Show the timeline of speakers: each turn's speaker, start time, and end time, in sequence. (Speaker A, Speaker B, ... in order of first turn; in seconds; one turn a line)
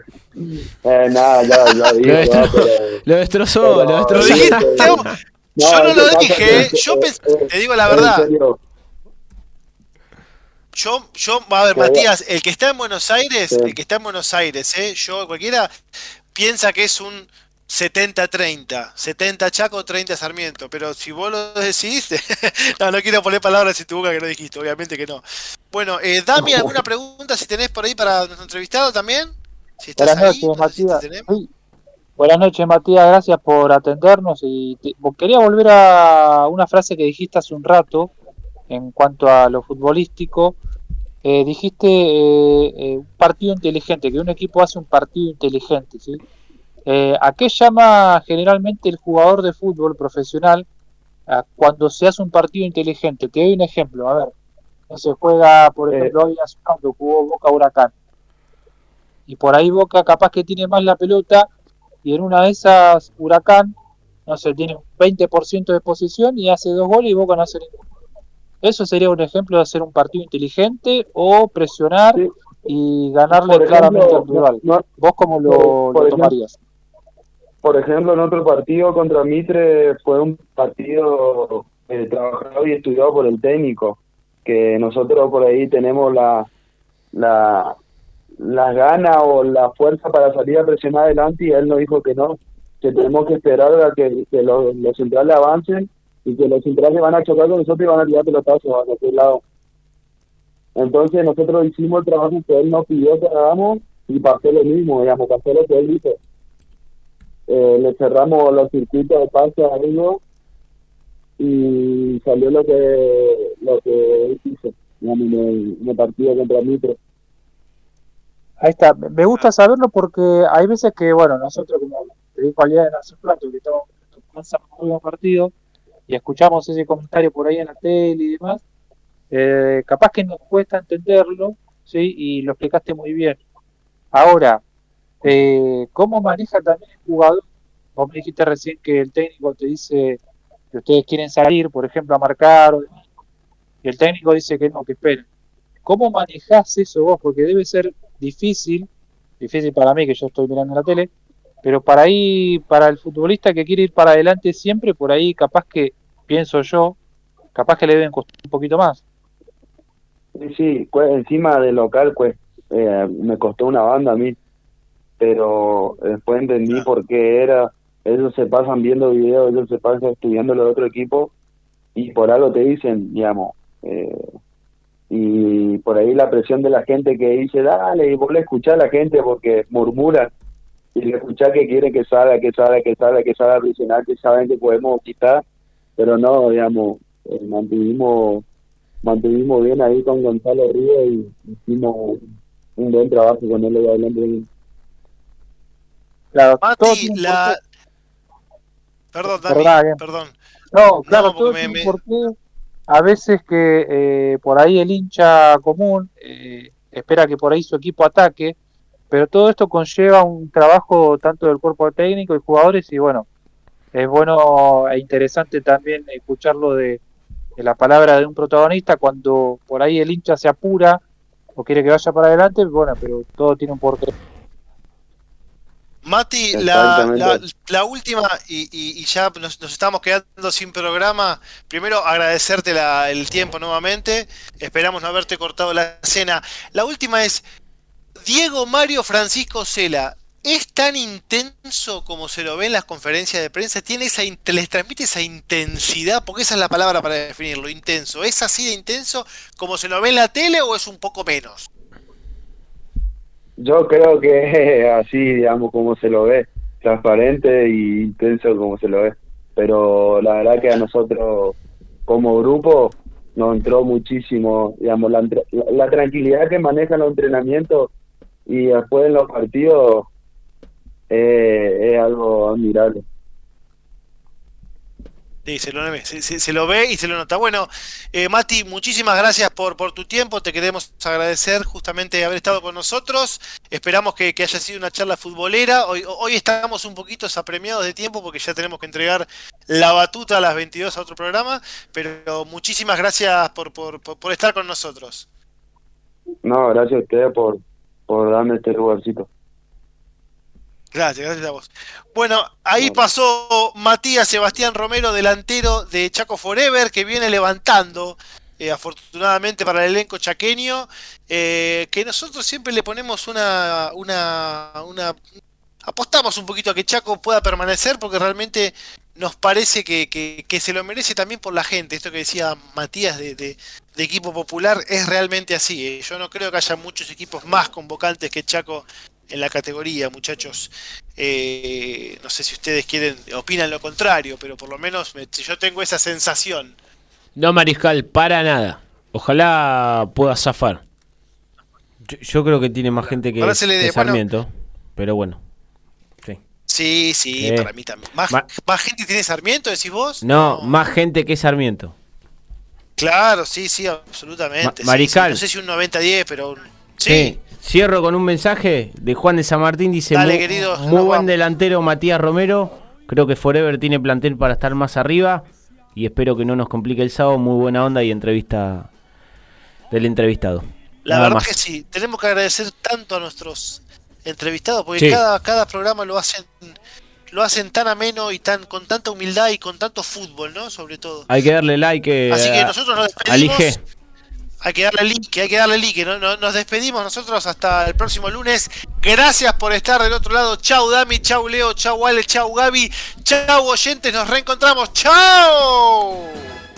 Speaker A: 0.4-3.0
Speaker B: 2.0-4.9
Speaker A: 3.6-5.0
Speaker C: 4.1-8.2
Speaker A: 5.5-8.6
Speaker C: 10.7-15.7
Speaker A: 11.7-12.1
Speaker A: 13.5-13.8
Speaker C: 16.3-31.3
Speaker D: 30.0-31.5
Speaker D: 32.2-38.1
Speaker D: 38.7-40.5
Speaker D: 41.2-46.2
Speaker D: 46.9-50.6
Speaker D: 51.3-54.3
Speaker D: 54.9-57.9
Speaker D: 59.3-61.5
Speaker D: 62.0-63.7
Speaker D: 64.3-67.8
Speaker D: 68.6-76.6
Speaker A: 73.3-74.9
Speaker A: 75.5-76.3
Speaker A: 77.6-86.5
Speaker A: 87.1-87.8
Speaker A: 88.4-99.4
Speaker A: 100.8-106.2
Speaker A: 107.5-110.2
Speaker A: 111.4-117.0
Speaker D: 118.6-125.5
Speaker D: 126.1-128.6
Speaker D: 129.3-133.4
Speaker D: 134.1-134.6
Speaker D: 135.2-137.4
Speaker D: 137.9-140.2
Speaker D: 140.7-142.9
Speaker D: 143.8-145.2
Speaker D: 145.8-148.9
Speaker D: 149.4-151.1
Speaker D: 151.6-157.0
Speaker D: 157.6-159.0
Speaker A: 160.3-164.4
Speaker A: 165.2-171.3
Speaker A: 171.9-174.3
Speaker A: 175.1-180.3
Speaker A: 180.9-185.4
Speaker A: 186.0-188.4
Speaker A: 189.0-194.5
Speaker D: 196.3-197.6
Speaker C: 196.6-197.6
Speaker C: 199.1-200.3
Speaker D: 199.3-200.0
Speaker D: 200.7-202.3
Speaker C: 201.1-201.9
Speaker D: 202.9-208.5
Speaker D: 209.1-213.3
Speaker D: 213.9-217.0
Speaker D: 217.6-221.0
Speaker D: 221.6-224.1
Speaker C: 226.0-237.4
Speaker A: 226.5-227.4
Speaker C: 238.3-251.7
Speaker A: 253.6-267.9
Speaker A: 268.5-270.1
Speaker A: 271.1-273.0
Speaker C: 275.4-295.2
Speaker A: 296.4-299.3
Speaker C: 300.9-315.2
Speaker C: 315.9-336.7
Speaker B: 337.4-340.8
Speaker E: 342.0-345.4
Speaker C: 343.4-344.2
Speaker C: 346.7-350.7
Speaker E: 347.4-347.7
Speaker E: 350.2-351.9
Speaker C: 353.0-357.3
Speaker E: 354.6-355.4
Speaker E: 357.1-368.9
Speaker C: 360.1-361.3
Speaker E: 369.9-371.5
Speaker C: 371.1-376.7
Speaker C: 377.3-381.3
Speaker E: 381.3-382.7
Speaker C: 382.3-383.8
Speaker E: 383.2-383.8
Speaker C: 384.6-396.4